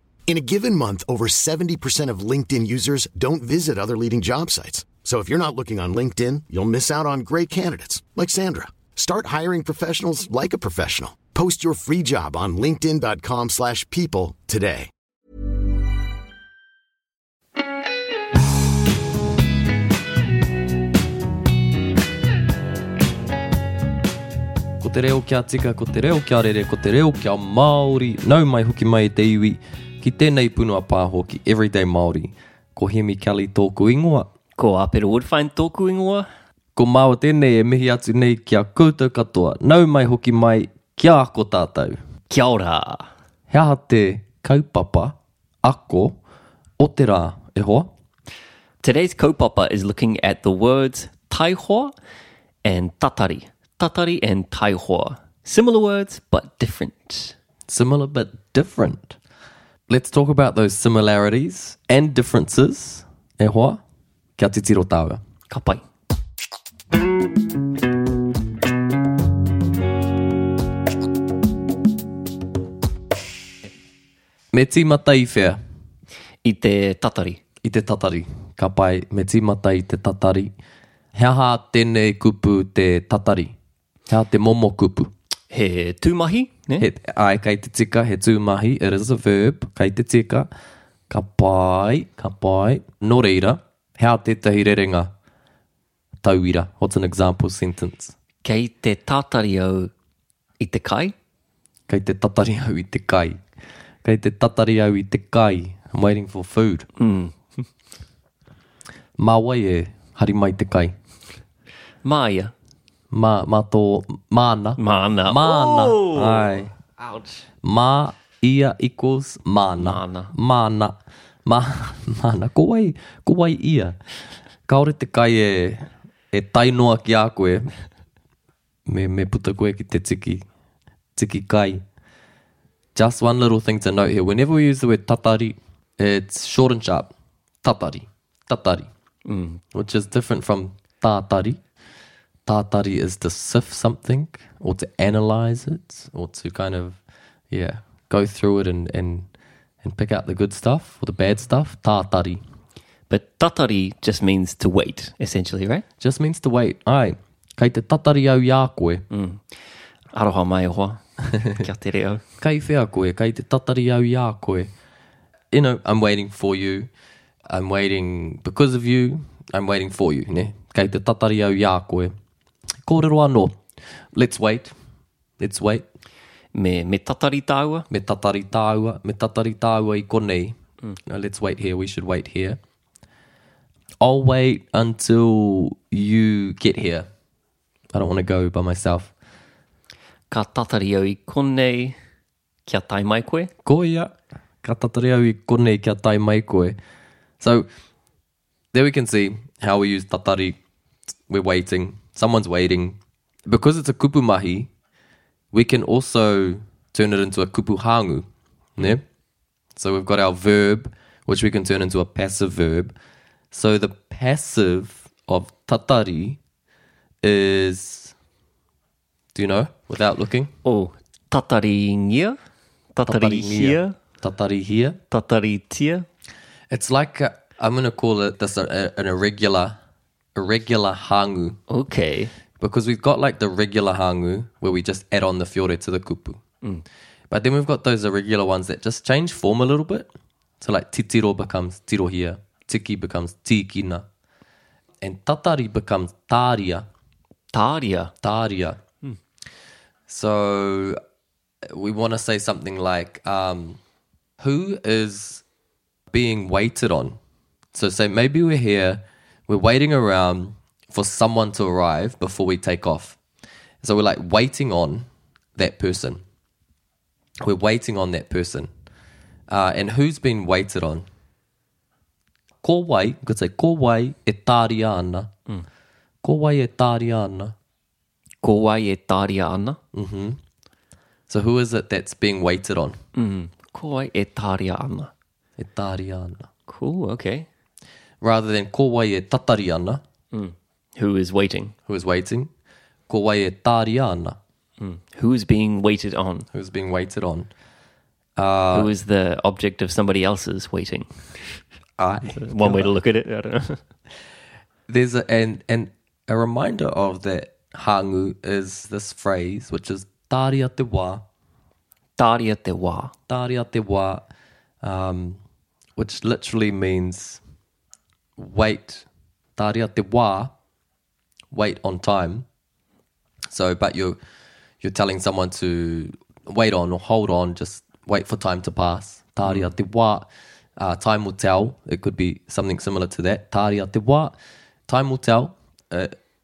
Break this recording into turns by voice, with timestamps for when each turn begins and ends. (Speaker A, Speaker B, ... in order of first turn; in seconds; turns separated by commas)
Speaker A: 0.3-14.9, Speaker B: 24.8-34.3, Speaker C: 34.6-36.3, Speaker B: 36.8-42.0, Speaker C: 42.3-43.1, Speaker B: 43.5-46.1, Speaker B: 46.8-47.9, Speaker C: 48.8-51.9, Speaker C: 52.6-57.3, Speaker B: 57.7-59.1, Speaker B: 59.9-63.8, Speaker B: 64.4-65.2, Speaker C: 65.5-65.8, Speaker B: 74.5-75.6, Speaker C: 76.4-77.4, Speaker B: 77.6-80.5, Speaker B: 81.1-83.5, Speaker B: 84.1-85.1, Speaker C: 85.5-86.9, Speaker B: 86.8-90.5, Speaker B: 91.1-95.1, Speaker B: 96.2-98.1, Speaker C: 98.4-99.9, Speaker C: 100.6-101.1, Speaker B: 101.9-103.4, Speaker B: 104.0-106.9, Speaker C: 107.0-107.5, Speaker B: 109.2-110.9, Speaker C: 112.0-112.5, Speaker B: 113.1-116.7, Speaker C: 114.8-117.4, Speaker B: 117.6-124.0, Speaker C: 119.8-120.3, Speaker B: 124.7-127.7, Speaker B: 128.9-130.4, Speaker B: 131.2-131.8, Speaker B: 132.9-137.1, Speaker B: 137.6-138.9, Speaker C: 139.2-139.6, Speaker B: 139.7-141.6, Speaker B: 142.5-147.0, Speaker B: 147.5-149.2, Speaker B: 149.8-152.4, Speaker C: 153.1-155.8, Speaker B: 156.0-159.0, Speaker C: 159.1-159.4, Speaker C: 160.1-162.2, Speaker B: 162.4-164.7, Speaker B: 165.5-166.9, Speaker B: 167.5-172.1, Speaker B: 172.8-173.6, Speaker B: 174.1-174.7, Speaker B: 175.4-175.8, Speaker C: 176.5-177.9, Speaker B: 177.9-180.5, Speaker B: 181.1-182.6, Speaker B: 184.0-187.1, Speaker B: 187.9-189.1, Speaker C: 190.3-192.0, Speaker C: 192.7-193.5, Speaker B: 193.6-194.1, Speaker B: 194.6-196.8, Speaker B: 197.4-197.7, Speaker B: 198.7-200.6, Speaker B: 201.3-204.7, Speaker B: 205.5-208.2, Speaker B: 208.8-209.0, Speaker B: 209.8-212.9, Speaker B: 213.5-216.4, Speaker B: 217.2-218.1, Speaker B: 219.3-220.5, Speaker C: 220.6-222.4, Speaker C: 222.9-223.9, Speaker B: 223.0-225.0, Speaker C: 225.1-226.1, Speaker B: 226.7-229.8, Speaker B: 230.3-231.6, Speaker C: 231.7-232.3, Speaker B: 232.6-236.4, Speaker B: 237.3-240.1, Speaker B: 240.6-244.0, Speaker B: 245.0-246.8, Speaker C: 247.5-248.1, Speaker B: 248.2-248.8, Speaker B: 250.1-251.0, Speaker B: 251.7-253.8, Speaker B: 254.4-255.4, Speaker B: 256.1-257.2, Speaker B: 257.7-263.2, Speaker B: 263.8-266.2, Speaker B: 267.4-268.7, Speaker B: 269.5-271.1, Speaker B: 272.6-275.3, Speaker B: 276.2-277.5, Speaker C: 278.4-279.8, Speaker B: 279.9-280.4, Speaker B: 281.3-283.0, Speaker C: 283.1-285.1, Speaker B: 285.6-286.5, Speaker C: 286.7-287.5, Speaker B: 288.2-290.0, Speaker C: 290.3-291.7, Speaker B: 291.9-292.5, Speaker B: 293.1-294.4, Speaker C: 294.8-296.5, Speaker B: 296.5-297.5, Speaker B: 298.4-298.9, Speaker C: 298.7-301.6, Speaker B: 302.0-302.9, Speaker C: 302.3-303.8, Speaker B: 304.9-311.2, Speaker C: 312.2-313.1, Speaker B: 313.3-314.2, Speaker B: 314.8-315.4, Speaker B: 316.0-317.4, Speaker B: 318.4-319.0, Speaker B: 319.6-320.5, Speaker B: 321.5-322.4, Speaker B: 323.5-324.2, Speaker B: 324.8-330.2, Speaker C: 329.4-329.7, Speaker B: 330.8-334.3, Speaker B: 334.9-336.1